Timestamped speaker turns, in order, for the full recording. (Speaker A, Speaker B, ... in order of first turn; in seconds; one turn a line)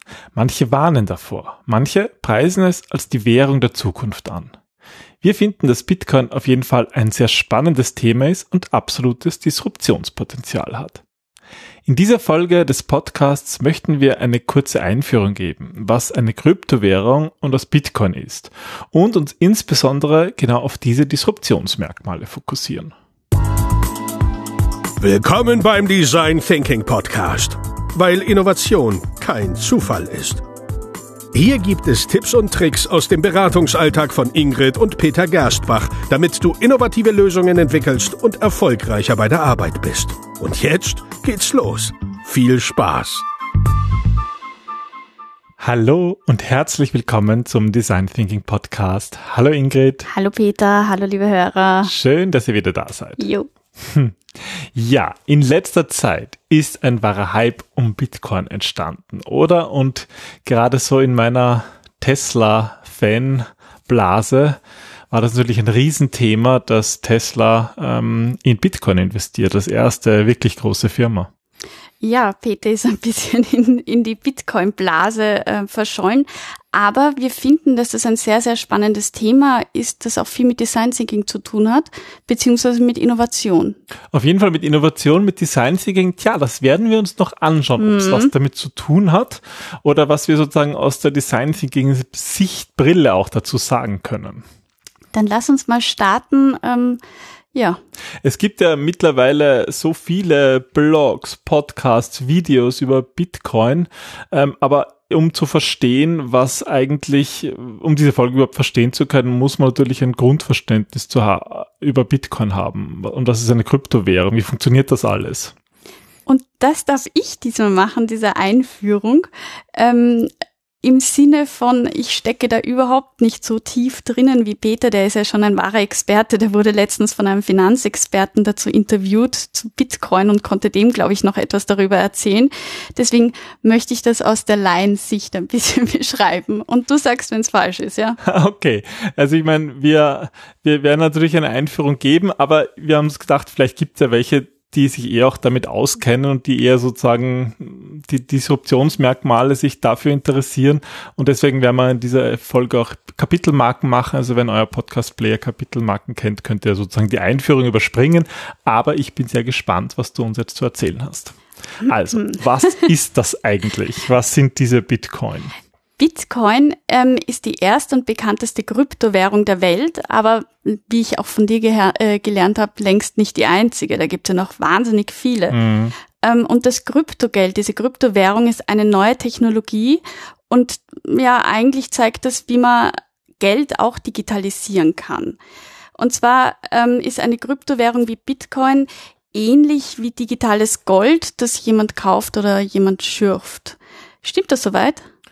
Speaker A: 0.3-4.5
Speaker A: 5.2-11.0
Speaker A: 11.8-22.9
Speaker B: 25.0-30.4
Speaker B: 31.3-43.2
Speaker A: 45.6-50.1
Speaker C: 50.0-51.9
Speaker A: 51.8-53.2
Speaker C: 53.2-53.5
Speaker A: 53.8-64.6
Speaker A: 65.1-71.3
Speaker C: 72.0-83.8
Speaker A: 84.1-94.4
Speaker C: 87.8-88.3
Speaker C: 95.1-97.0
Speaker A: 98.2-115.5
Speaker C: 116.3-120.3
Speaker C: 120.8-138.2
Speaker A: 138.2-165.5
Speaker C: 166.0-175.6
Speaker A: 175.5-175.9
Speaker C: 176.2-185.4
Speaker C: 186.0-195.1